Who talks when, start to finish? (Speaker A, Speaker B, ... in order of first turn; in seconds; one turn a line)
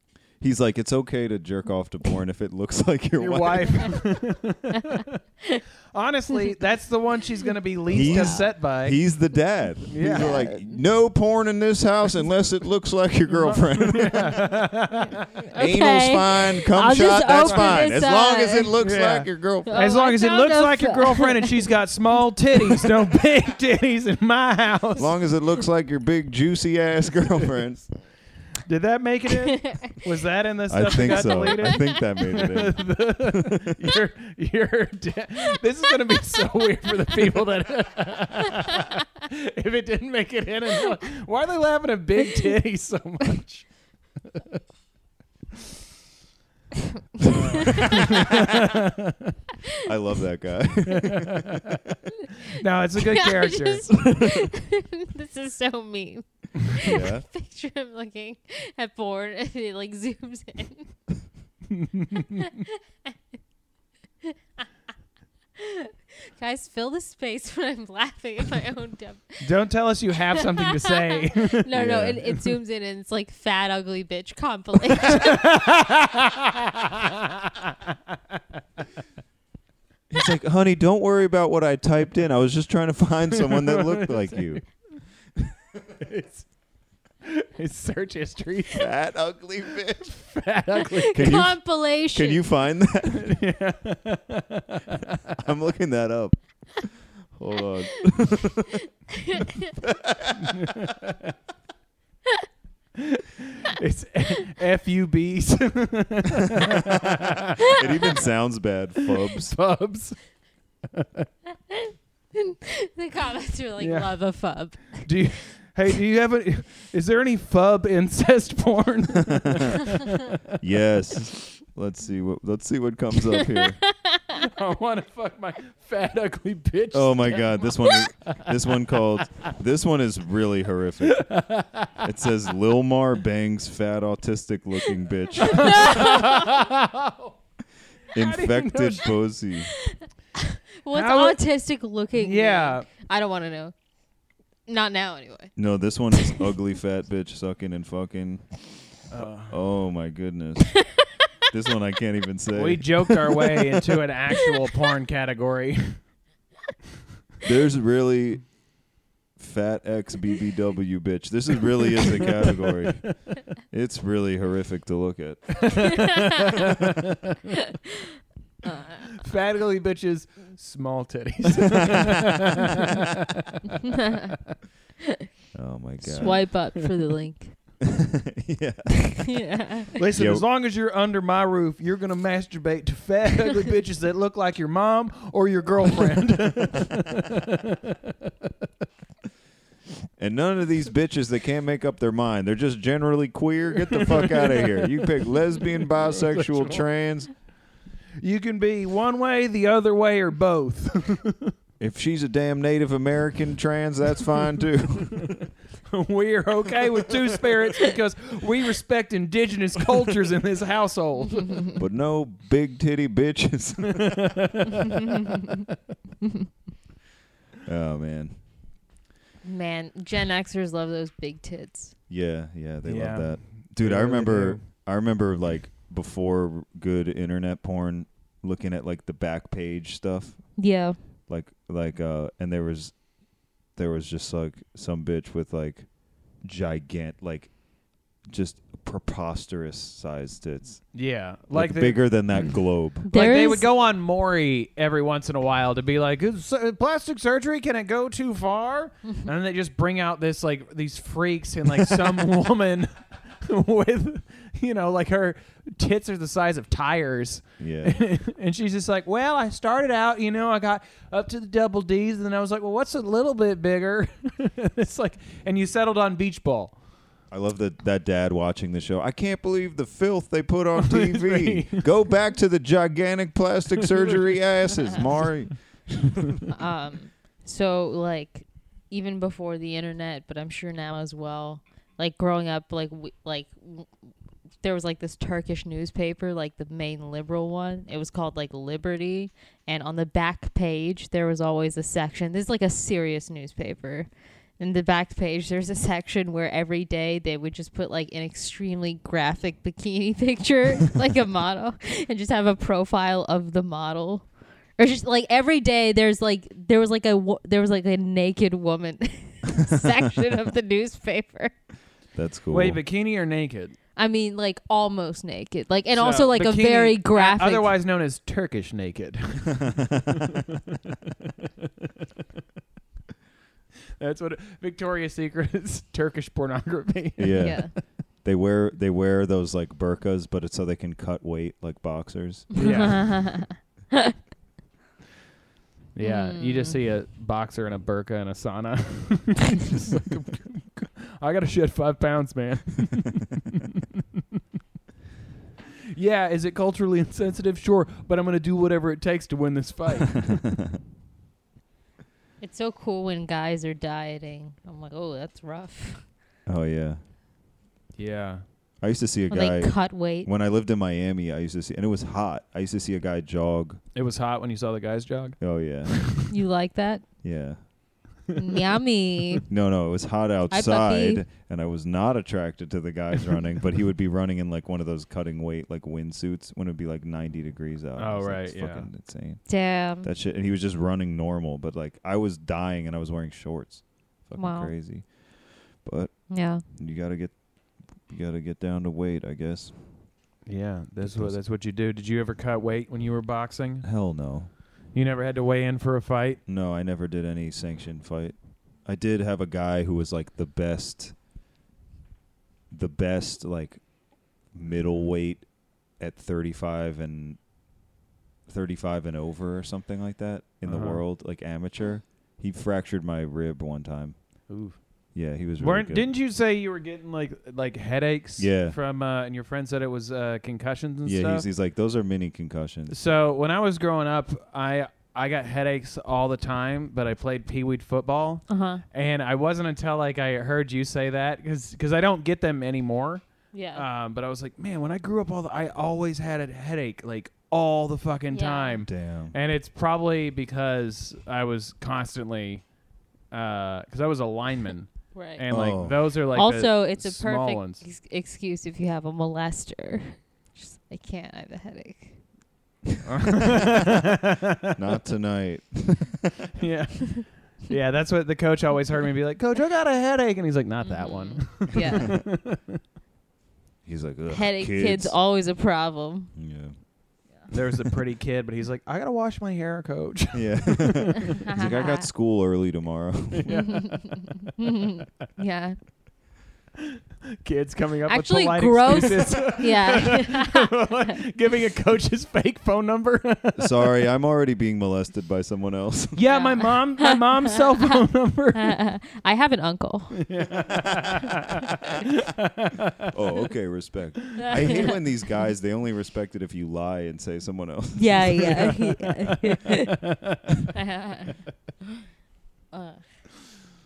Speaker A: 0.4-4.0
Speaker B: 3.2-5.1
Speaker B: 5.9-9.1
Speaker A: 7.9-14.6
Speaker C: 7.9-8.4
Speaker B: 9.9-10.4
Speaker C: 10.0-10.8
Speaker B: 13.5-15.2
Speaker C: 15.4-18.7
Speaker A: 15.6-19.8
Speaker B: 17.4-17.8
Speaker B: 18.8-25.1
Speaker C: 19.6-21.5
Speaker A: 25.0-27.9
Speaker B: 28.6-44.6
Speaker A: 30.7-33.4
Speaker B: 47.2-48.9
Speaker A: 49.8-51.6
Speaker B: 50.9-51.6
Speaker B: 52.5-54.1
Speaker C: 53.1-60.9
Speaker A: 56.8-57.2
Speaker C: 65.6-69.4
Speaker B: 69.4-71.8
Speaker C: 70.6-75.4
Speaker A: 71.7-72.2
Speaker B: 75.1-77.7
Speaker A: 80.1-84.6
Speaker B: 83.4-84.6
Speaker B: 86.0-86.5
Speaker B: 87.2-88.9
Speaker A: 88.7-90.1
Speaker B: 90.0-91.4
Speaker C: 91.0-92.5
Speaker A: 91.1-93.4
Speaker B: 93.1-95.1
Speaker A: 95.4-98.8
Speaker C: 99.3-99.7
Speaker A: 99.8-100.8
Speaker B: 100.6-101.1
Speaker B: 103.1-107.8
Speaker A: 107.7-109.6
Speaker B: 109.2-110.2
Speaker B: 110.9-111.2
Speaker C: 112.3-115.1
Speaker B: 113.8-114.1
Speaker B: 115.0-120.2
Speaker A: 120.6-123.8
Speaker C: 123.5-124.3
Speaker B: 124.4-128.6
Speaker A: 126.9-131.4
Speaker B: 129.2-129.5
Speaker B: 131.0-131.9
Speaker A: 132.0-136.2
Speaker B: 135.5-137.3
Speaker C: 135.6-136.6
Speaker A: 138.1-139.7
Speaker B: 138.1-139.1
Speaker C: 140.7-143.7
Speaker B: 140.9-141.4
Speaker B: 142.2-142.9
Speaker C: 144.7-145.6
Speaker A: 145.6-150.9
Speaker B: 149.1-149.6
Speaker A: 151.5-153.4
Speaker B: 152.5-156.0
Speaker A: 157.4-158.5
Speaker A: 159.4-166.0
Speaker B: 162.1-162.4
Speaker B: 165.6-167.0
Speaker C: 168.6-169.0
Speaker B: 169.2-173.1
Speaker A: 175.5-176.7
Speaker B: 176.0-176.7
Speaker C: 176.1-177.6
Speaker A: 177.8-179.4
Speaker C: 179.3-179.9
Speaker B: 179.9-187.8
Speaker A: 180.1-180.4
Speaker A: 190.2-197.3
Speaker B: 194.0-195.1
Speaker B: 195.6-196.8
Speaker B: 198.2-201.5
Speaker A: 201.8-205.4
Speaker B: 205.9-211.7
Speaker A: 211.8-214.5
Speaker B: 213.9-214.9
Speaker A: 217.7-218.4
Speaker C: 219.4-221.9
Speaker A: 222.1-230.7
Speaker B: 222.8-224.7
Speaker C: 230.6-231.0
Speaker A: 231.3-233.1
Speaker A: 233.7-237.6
Speaker A: 238.2-241.0
Speaker B: 240.9-242.5
Speaker A: 241.5-243.1
Speaker C: 243.1-243.7
Speaker B: 243.1-266.8
Speaker A: 257.6-258.0
Speaker A: 267.3-276.4
Speaker B: 270.8-271.9
Speaker B: 273.8-274.4
Speaker C: 276.5-283.9
Speaker C: 284.6-311.5
Speaker A: 312.1-312.8
Speaker B: 312.5-313.8
Speaker C: 313.9-317.7
Speaker B: 315.9-320.4
Speaker A: 319.6-320.0
Speaker B: 324.0-327.8
Speaker A: 327.2-332.7
Speaker C: 327.4-327.7
Speaker B: 332.6-333.2
Speaker C: 332.6-333.6
Speaker B: 335.9-343.7
Speaker C: 336.0-336.8
Speaker B: 345.9-350.4
Speaker A: 350.3-350.7
Speaker C: 352.4-356.1
Speaker A: 356.4-357.0
Speaker B: 358.0-358.4
Speaker A: 358.8-363.8
Speaker C: 359.3-360.3
Speaker B: 363.9-366.2
Speaker A: 365.4-366.1
Speaker C: 366.3-367.0
Speaker A: 367.2-367.6
Speaker C: 368.4-369.4
Speaker A: 369.5-390.1
Speaker C: 370.5-371.2
Speaker B: 378.0-378.9
Speaker C: 379.5-380.1
Speaker C: 384.4-384.7
Speaker C: 386.3-386.6
Speaker B: 390.4-394.0
Speaker A: 391.0-391.4
Speaker A: 393.8-394.5
Speaker B: 394.9-396.4
Speaker A: 396.4-401.2
Speaker A: 402.7-407.4
Speaker A: 408.5-414.6
Speaker B: 410.6-411.0
Speaker B: 414.5-414.8
Speaker A: 415.1-416.1
Speaker B: 415.6-421.5
Speaker A: 418.4-418.8
Speaker A: 421.1-423.0
Speaker B: 422.9-442.6
Speaker C: 428.5-428.8
Speaker C: 433.5-433.9
Speaker C: 438.3-438.8
Speaker A: 438.9-439.3
Speaker B: 443.3-447.8
Speaker C: 445.1-445.4
Speaker A: 445.5-446.0
Speaker C: 446.3-452.2
Speaker B: 453.1-454.7
Speaker A: 454.8-456.2
Speaker B: 456.6-462.8
Speaker C: 460.8-462.1
Speaker A: 461.9-462.1
Speaker A: 463.8-465.1
Speaker C: 464.3-466.3
Speaker A: 466.4-466.7
Speaker B: 467.5-471.3
Speaker A: 470.3-473.5
Speaker C: 471.4-472.1
Speaker B: 473.3-474.3
Speaker C: 473.5-475.8
Speaker B: 477.4-483.8
Speaker C: 478.1-480.7
Speaker A: 483.6-486.2
Speaker B: 486.1-488.8
Speaker C: 486.3-487.1
Speaker C: 488.6-490.2
Speaker B: 490.2-492.9
Speaker A: 493.1-498.5
Speaker C: 494.4-494.9
Speaker C: 497.9-499.9
Speaker C: 500.7-501.4
Speaker C: 502.7-503.0